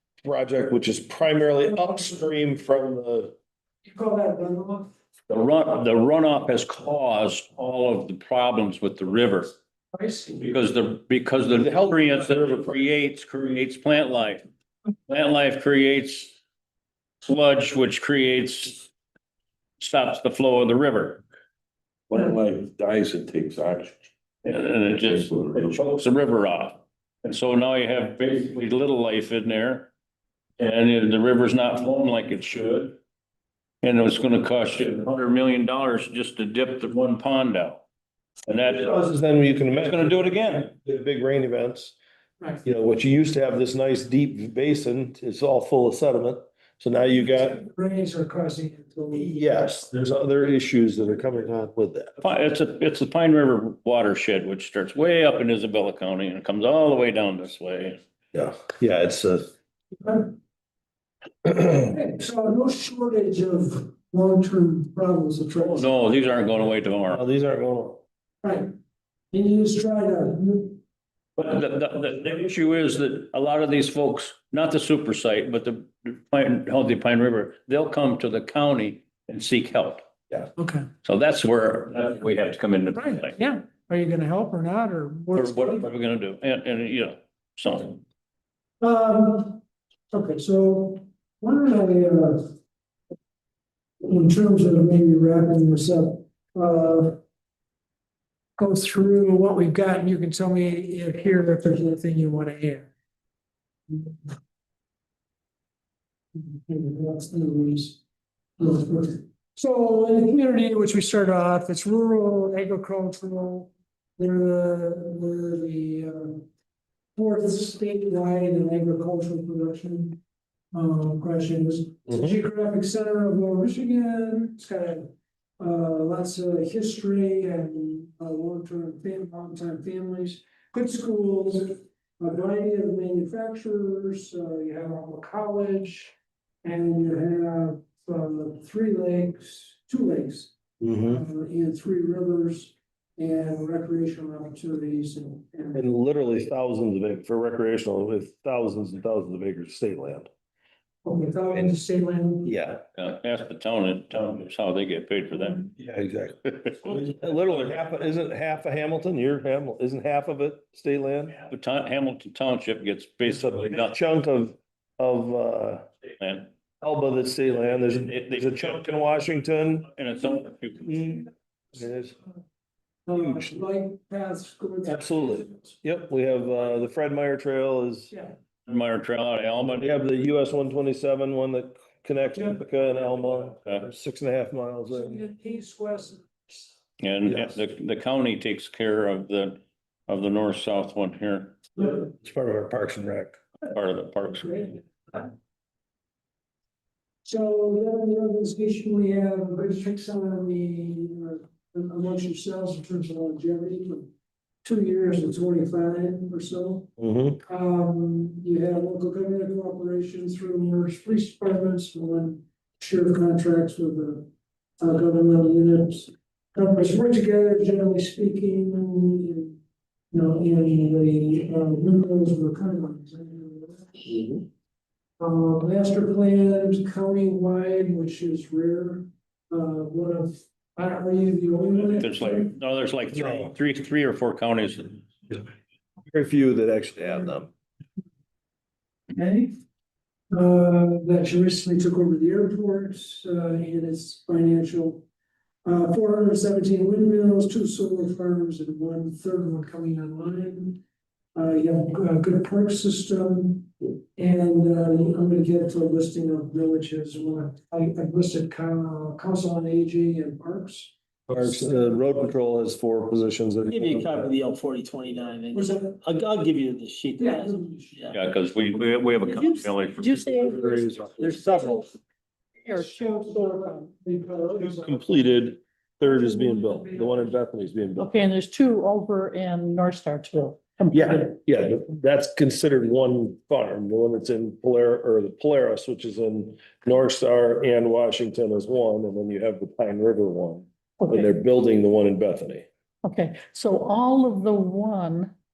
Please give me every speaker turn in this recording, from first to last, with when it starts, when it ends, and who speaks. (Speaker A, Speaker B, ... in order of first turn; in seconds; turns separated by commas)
Speaker A: 0.2-3.3, Speaker B: 3.8-4.9, Speaker C: 5.3-9.5, Speaker B: 9.9-10.6, Speaker C: 10.4-14.4, Speaker C: 15.1-16.4, Speaker C: 17.2-18.9, Speaker C: 19.8-21.2, Speaker D: 22.1-24.0, Speaker C: 24.4-29.9, Speaker D: 25.0-25.8, Speaker C: 30.6-33.0, Speaker C: 33.8-37.8, Speaker C: 38.5-38.9, Speaker A: 38.6-41.9, Speaker C: 39.7-40.7, Speaker A: 42.6-47.6, Speaker B: 47.2-49.3, Speaker A: 49.1-52.1, Speaker C: 52.2-58.0, Speaker A: 58.3-59.5, Speaker B: 59.9-60.4, Speaker B: 61.9-66.0, Speaker C: 65.6-67.2, Speaker A: 67.1-68.0, Speaker B: 68.4-68.7, Speaker B: 69.3-70.8, Speaker C: 71.4-80.0, Speaker B: 80.5-80.9, Speaker C: 81.0-83.3, Speaker B: 82.9-85.9, Speaker C: 85.3-88.0, Speaker B: 88.8-92.5, Speaker B: 94.0-97.2, Speaker B: 98.6-102.9, Speaker B: 103.9-104.3, Speaker B: 106.3-108.0, Speaker B: 108.6-116.5, Speaker B: 117.2-120.2, Speaker B: 120.7-145.8, Speaker A: 122.1-122.3, Speaker A: 140.8-141.2, Speaker A: 145.7-150.3, Speaker B: 151.0-152.5, Speaker A: 152.4-152.8, Speaker C: 152.9-155.7, Speaker A: 155.8-161.4, Speaker C: 156.4-157.0, Speaker C: 161.5-163.9, Speaker A: 163.6-165.8, Speaker C: 166.2-166.5, Speaker A: 166.8-169.9, Speaker C: 168.3-168.8, Speaker C: 169.9-171.0, Speaker A: 170.8-172.2, Speaker B: 173.1-175.7, Speaker A: 173.2-173.5, Speaker A: 174.8-178.1, Speaker B: 178.1-178.4, Speaker C: 178.7-179.8, Speaker A: 179.6-185.2, Speaker B: 182.3-182.6, Speaker B: 184.9-186.6, Speaker C: 187.0-191.6, Speaker A: 187.3-187.5, Speaker A: 191.9-193.4, Speaker C: 193.7-194.7, Speaker B: 194.4-195.2, Speaker B: 197.2-204.1, Speaker B: 204.6-214.3, Speaker A: 207.0-207.4, Speaker B: 214.8-219.6, Speaker B: 220.1-224.4, Speaker B: 225.2-232.5, Speaker C: 231.9-235.0, Speaker A: 233.1-233.5, Speaker A: 236.1-237.5, Speaker B: 239.1-239.5, Speaker B: 240.3-245.1, Speaker B: 245.6-250.8, Speaker B: 251.3-260.9, Speaker A: 261.3-264.3, Speaker E: 263.7-268.1, Speaker B: 265.5-266.0, Speaker B: 267.2-268.1, Speaker C: 268.1-270.5, Speaker F: 269.3-271.9, Speaker A: 270.5-271.3, Speaker E: 271.2-271.5, Speaker F: 272.6-273.9, Speaker B: 272.7-275.0, Speaker A: 274.6-278.1, Speaker B: 276.1-277.3, Speaker F: 278.0-281.3, Speaker A: 280.9-292.6, Speaker F: 291.0-291.3, Speaker F: 293.0-295.3